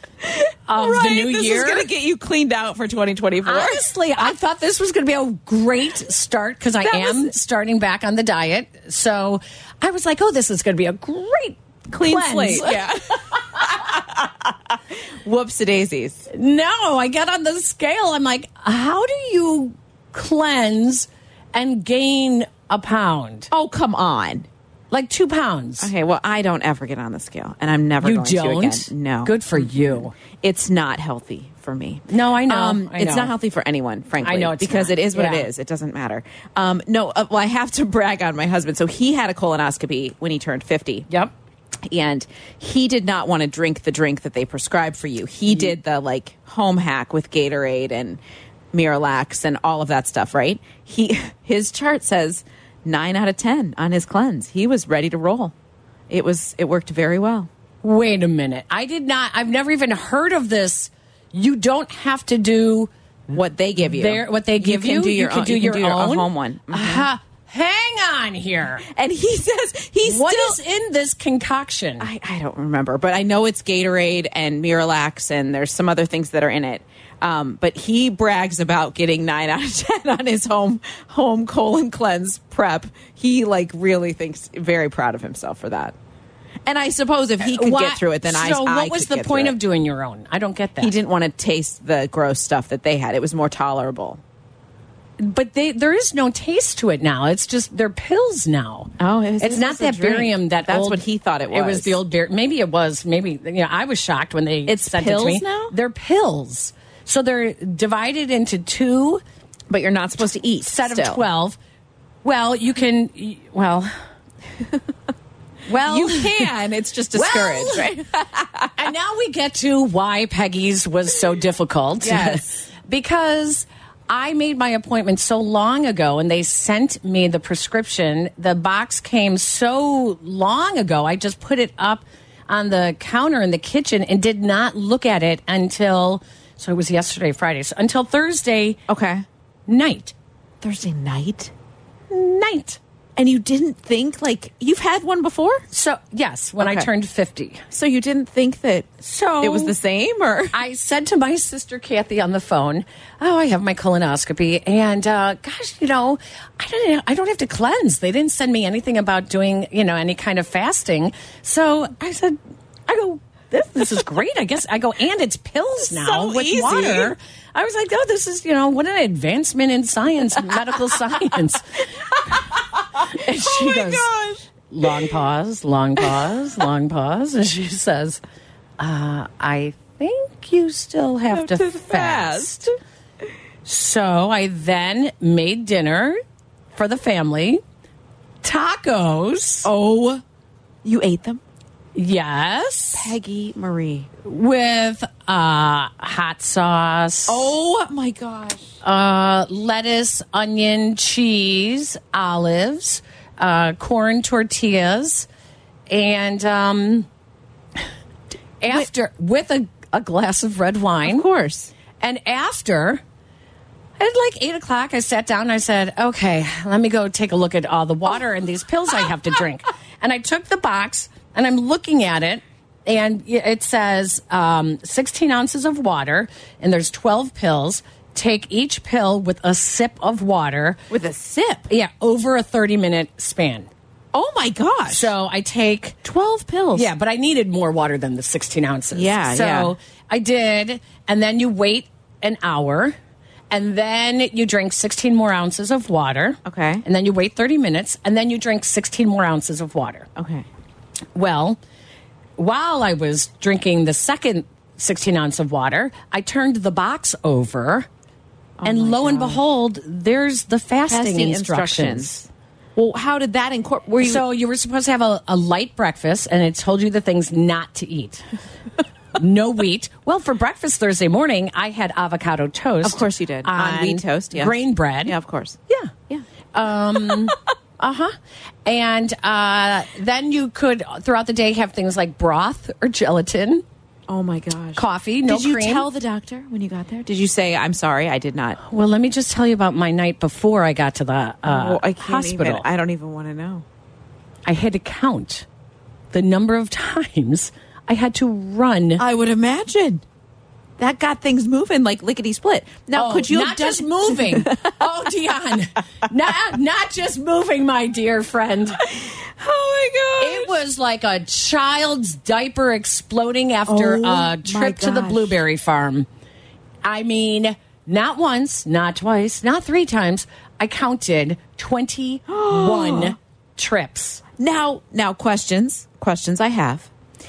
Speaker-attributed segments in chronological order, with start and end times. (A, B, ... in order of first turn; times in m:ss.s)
0:00.2-0:03.8 A
0:00.7-0:01.9 B
0:03.4-0:13.8 B
0:06.8-0:07.3 A
0:11.9-0:14.4 A
0:15.2-0:16.3 A
0:16.3-0:23.5 B
0:23.5-0:24.5 A
0:24.9-0:25.9 B
0:25.8-0:41.1 A
0:28.0-0:30.1 B
0:32.1-0:33.3 B
0:34.2-0:35.5 B
0:41.9-0:48.2 A
0:45.5-0:45.8 B
0:48.7-0:55.5 A
0:56.1-0:57.5 A
0:57.8-1:02.9 B
1:03.3-1:07.0 A
1:03.8-1:08.8 B
1:08.9-1:10.6 A
1:10.0-1:12.1 B
1:12.0-1:25.9 A
1:26.6-1:29.6 A
1:27.4-1:30.9 B
1:30.8-1:34.2 A
1:35.2-1:49.2 B
1:39.0-1:42.0 A
1:44.7-1:45.7 A
1:49.7-1:51.2 A
1:50.6-1:51.6 B
1:52.2-1:53.9 B
1:55.7-1:56.4 B
1:55.9-1:58.7 A
1:57.1-1:57.9 B
1:58.8-2:18.8 B
2:02.0-2:02.6 A
2:18.9-2:19.2 A
2:19.7-2:20.1 B
2:20.6-2:21.5 A
2:22.1-2:22.8 B
2:23.2-2:25.6 A
2:25.7-2:27.6 B
2:26.6-2:26.9 A
2:27.7-2:30.6 A
2:29.0-2:29.7 B
2:30.5-2:51.6 B
2:45.9-2:47.1 A
2:53.0-2:55.1 A
2:53.1-2:54.1 B
2:54.7-2:58.2 B
2:58.8-3:02.7 B
3:01.3-3:02.7 A
3:03.6-3:06.2 B
3:06.7-3:07.6 B
3:08.4-3:09.7 B
3:09.6-3:10.2 A
3:10.8-3:11.4 A
3:11.9-3:13.1 B
3:12.9-3:14.1 A
3:14.2-3:17.5 B
3:17.3-3:18.7 A
3:18.8-3:25.3 B
3:25.9-3:27.1 B
3:28.6-3:31.2 B
3:31.0-3:31.7 A
3:32.0-3:33.0 B
3:34.0-3:50.8 B
3:50.9-3:51.7 A
3:51.7-3:53.7 B
3:54.1-3:55.1 A
3:54.9-3:56.0 B
3:56.0-3:56.9 A
3:56.7-4:03.0 B
3:58.9-3:59.7 A
4:03.5-4:10.1 B
4:06.4-4:06.8 A
4:10.2-4:10.4 A
4:11.1-4:11.6 B
4:12.4-4:17.9 B
4:18.6-4:19.4 A
4:18.6-4:22.2 B
4:20.9-4:22.1 A
4:22.8-4:24.2 A
4:24.0-4:28.2 B
4:29.1-4:35.1 B
4:32.8-4:35.6 A
4:36.5-4:38.1 B
4:36.9-4:37.3 A
4:38.6-4:43.6 B
4:44.1-4:48.6 A
4:44.8-4:45.8 B
4:48.6-4:52.6 B
4:51.4-4:53.6 A
4:54.4-4:55.4 B
4:56.1-4:59.0 B
4:59.0-5:00.0 A
5:00.8-5:04.8 A
5:02.9-5:08.8 B
5:08.8-5:10.6 A
5:10.2-5:16.1 B
5:13.7-5:15.4 A
5:16.8-5:24.2 B
5:22.3-5:23.1 A
5:24.4-5:26.9 A